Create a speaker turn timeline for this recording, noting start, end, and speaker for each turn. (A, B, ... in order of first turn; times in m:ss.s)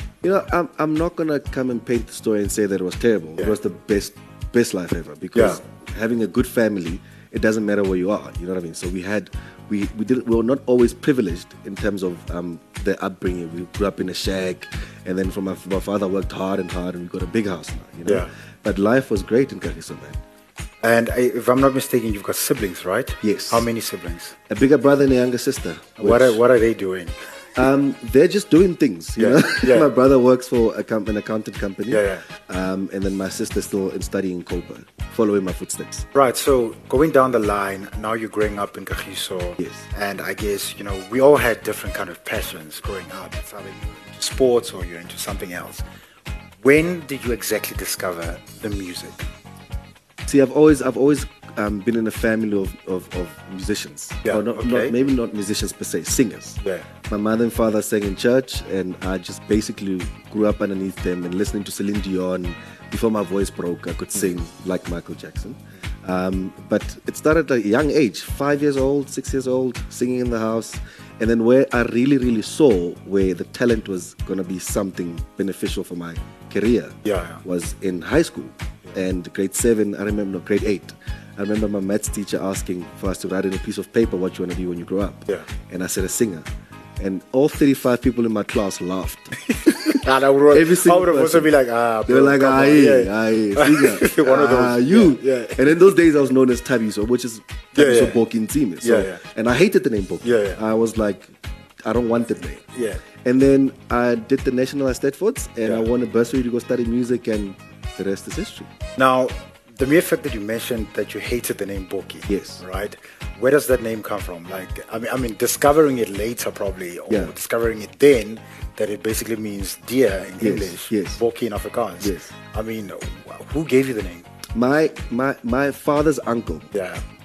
0:00.2-0:20.2 A
0:05.4-0:05.6 B
0:20.8-0:24.4 B
0:23.2-0:23.7 A
0:24.5-0:26.4 A
0:26.0-0:27.2 B
0:27.6-0:36.1 A
0:29.2-0:29.9 B
0:31.9-0:32.3 B
0:36.1-0:45.8 B
0:46.6-0:49.3 B
0:50.3-1:26.5 A
0:54.2-0:54.9 B
0:56.6-0:56.9 B
1:17.0-1:17.4 B
1:27.0-1:29.4 A
1:29.5-1:35.7 B
1:30.5-1:31.5 A
1:32.1-1:41.3 A
1:37.7-1:38.2 B
1:38.8-1:39.2 B
1:40.2-1:40.6 B
1:41.8-1:42.6 A
1:42.7-1:43.0 B
1:43.2-1:48.7 A
1:49.0-2:04.3 B
1:52.3-1:52.6 A
2:00.4-2:01.2 A
2:02.0-2:02.3 A
2:04.5-2:06.7 A
2:06.7-2:07.0 B